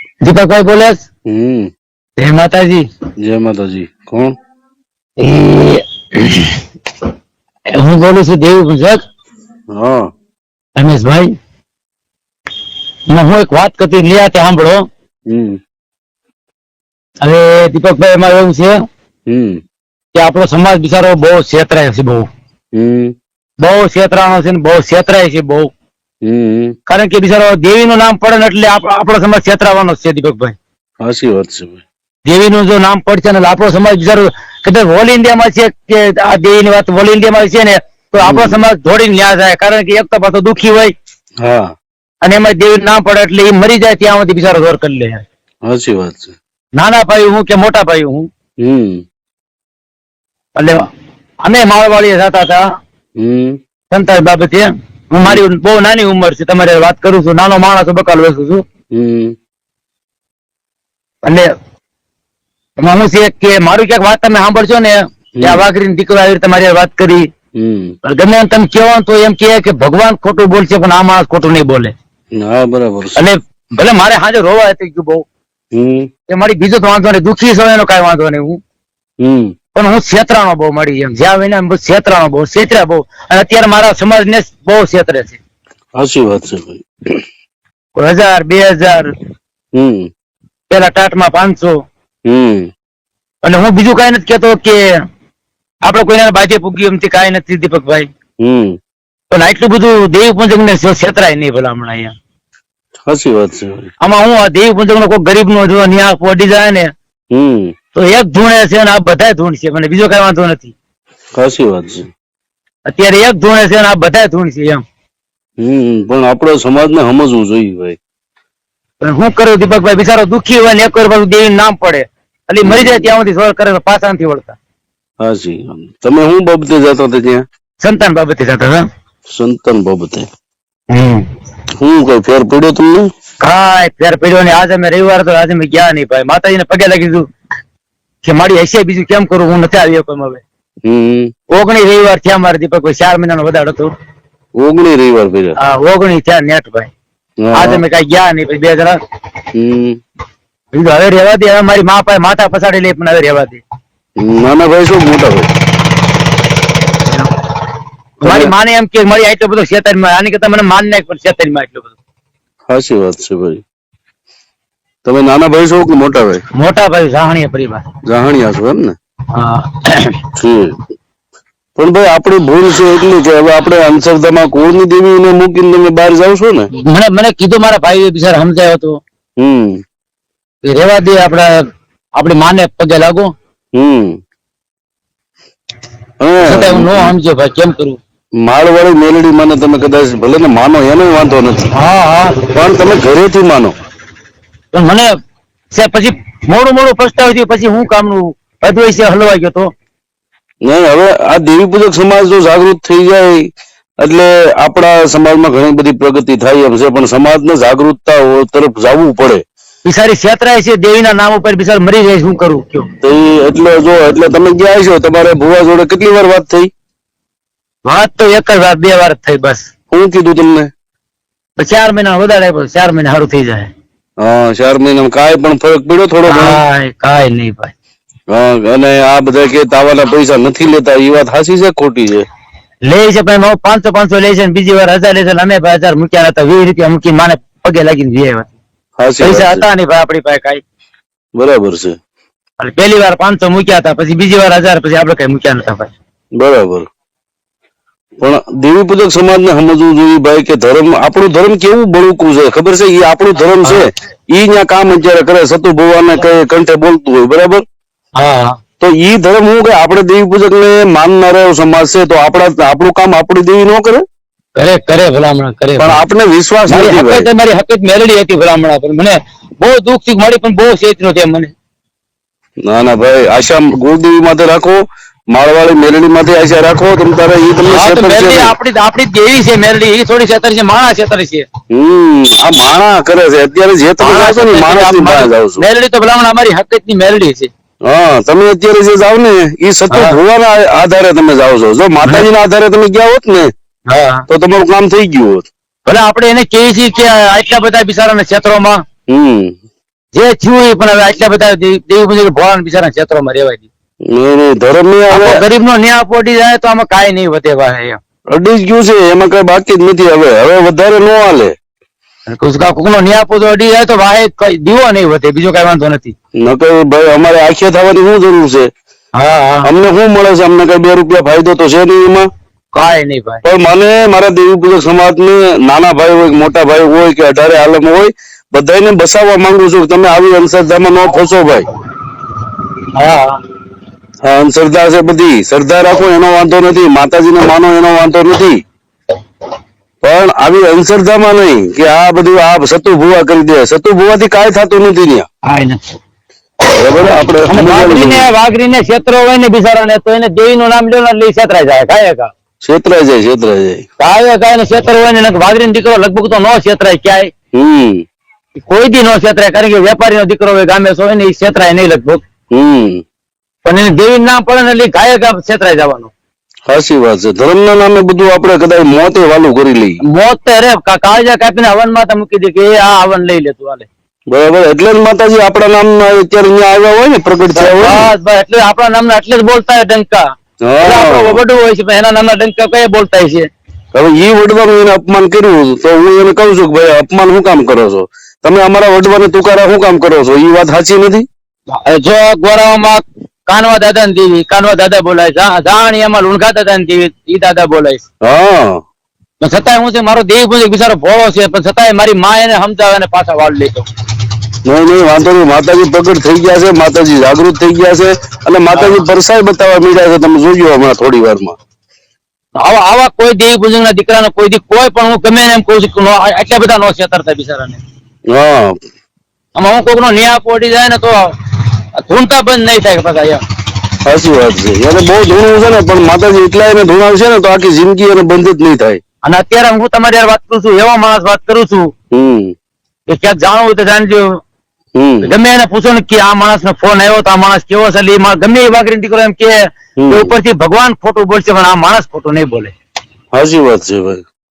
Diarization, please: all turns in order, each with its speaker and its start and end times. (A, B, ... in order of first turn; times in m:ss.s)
0:00.2-0:01.0 A
0:01.3-0:01.7 B
0:02.2-0:02.9 A
0:03.2-0:04.4 B
0:05.2-0:06.6 A
0:07.7-0:09.0 A
0:09.7-0:10.1 B
0:10.8-0:11.3 A
0:13.1-0:14.8 A
0:15.3-0:15.6 B
0:17.2-0:18.8 A
0:19.3-0:19.6 B
0:20.1-0:22.3 A
0:22.7-0:23.2 B
0:23.6-0:25.7 A
0:26.2-0:26.8 B
0:26.9-0:30.6 A
0:31.0-0:31.8 B
0:32.2-0:40.9 A
0:38.2-0:38.6 B
0:41.4-0:41.7 B
0:42.2-0:45.2 A
0:45.7-0:46.4 B
0:46.8-0:48.3 A
0:48.6-0:49.0 B
0:50.6-0:50.8 A
0:51.4-0:52.6 A
0:53.2-0:53.6 B
0:53.9-0:58.6 A
0:58.9-0:59.3 B
1:02.8-1:07.2 A
1:05.4-1:05.6 B
1:07.6-1:08.0 B
1:08.0-1:11.9 A
1:12.4-1:13.2 B
1:13.2-1:15.3 A
1:15.7-1:16.1 B
1:16.3-1:18.6 A
1:19.2-1:19.5 B
1:19.8-1:25.4 A
1:26.0-1:27.2 B
1:28.0-1:29.1 A
1:29.8-1:30.1 B
1:30.7-1:31.8 A
1:32.3-1:32.7 B
1:33.4-1:34.8 A
1:35.8-1:38.1 A
1:38.4-1:38.8 B
1:39.3-1:42.1 A
1:43.0-1:43.9 B
1:44.0-1:46.9 A
1:47.3-1:47.7 B
1:47.9-1:50.7 A
1:51.4-1:52.1 B
1:52.9-1:54.8 A
1:55.6-1:58.0 B
1:59.0-2:04.6 A
2:02.6-2:03.1 B
2:05.2-2:07.4 B
2:07.8-2:08.8 A
2:09.3-2:10.3 B
2:10.9-2:11.3 A
2:11.8-2:13.1 B
2:13.4-2:17.2 A
2:18.2-2:20.4 A
2:20.8-2:21.3 B
2:21.5-2:23.9 A
2:24.6-2:25.6 B
2:25.6-2:26.9 A
2:27.4-2:27.8 B
2:27.5-2:29.0 A
2:29.6-2:30.0 B
2:30.7-2:33.6 A
2:34.2-2:35.5 B
2:38.2-2:42.0 A
2:38.2-2:38.5 B
2:42.7-2:43.6 B
2:45.0-2:46.4 B
2:46.6-2:47.9 A
2:48.0-2:49.0 B
2:49.3-2:50.2 A
2:50.4-2:50.8 B
2:51.8-2:56.7 B
2:56.8-2:59.0 A
2:59.4-2:59.8 B
3:00.6-3:01.6 A
3:02.2-3:03.3 A
3:03.8-3:04.2 B
3:06.2-3:07.1 B
3:06.4-3:08.0 A
3:08.4-3:11.7 B
3:11.7-3:12.4 A
3:12.6-3:13.8 B
3:14.7-3:15.1 A
3:15.7-3:19.7 A
3:20.6-3:23.5 B
3:24.0-3:29.4 B
3:29.8-3:32.9 A
3:33.0-3:36.7 B
3:37.8-3:39.7 A
3:39.9-3:40.7 B
3:41.6-3:43.7 A
3:44.2-3:46.6 B
3:46.3-3:47.7 A
3:48.3-3:52.3 B
3:52.8-3:58.6 A
3:59.0-3:59.6 B
3:59.2-4:00.6 A
4:01.4-4:02.0 B
4:02.6-4:05.9 A
4:06.4-4:06.9 B
4:08.2-4:17.6 B
4:18.2-4:18.6 A
4:18.8-4:24.0 B
4:24.6-4:26.0 A
4:25.8-4:27.3 B
4:26.7-4:31.5 A
4:32.7-4:34.8 B
4:35.3-4:38.6 B
4:37.6-4:41.5 A
4:41.7-4:45.6 B
4:44.0-4:47.5 A
4:47.9-4:53.5 B
4:49.9-4:50.2 A
4:53.9-4:54.2 A
4:54.3-4:55.5 B
4:55.9-4:58.8 A
4:59.1-4:59.6 B
5:00.1-5:03.7 A
5:04.1-5:05.5 B
5:05.1-5:08.0 A
5:08.3-5:11.5 B
5:12.3-5:16.2 A
5:16.4-5:18.7 B
5:19.2-5:19.7 A
5:19.6-5:22.3 B
5:22.7-5:23.4 A
5:23.4-5:31.7 B
5:32.9-5:33.4 A
5:34.2-5:38.6 B
5:40.0-5:45.3 B
5:45.5-5:45.8 A
5:46.8-5:48.3 B
5:47.5-5:52.3 A
5:52.6-5:53.8 B
5:54.0-5:57.3 A
5:57.5-5:58.0 B
5:58.6-6:02.2 A
6:02.5-6:03.0 B
6:03.6-6:06.1 A
6:06.7-6:10.0 B
6:10.1-6:13.9 A
6:14.3-6:18.1 B
6:17.5-6:20.2 A
6:20.7-6:21.4 B
6:20.8-6:23.5 A
6:23.9-6:31.3 B
6:31.7-6:38.0 A
6:38.2-6:38.8 B
6:39.4-6:43.9 A
6:44.6-6:51.6 B
6:48.7-6:49.0 A
6:52.6-6:57.8 A
6:58.3-6:58.8 B
6:59.6-7:01.3 A
7:02.0-7:03.4 A
7:04.0-7:09.0 B
7:09.2-7:11.9 A
7:12.1-7:12.5 B
7:13.1-7:14.3 A
7:15.0-7:15.3 B
7:15.2-7:22.7 A
7:20.0-7:20.3 B
7:23.3-7:24.2 B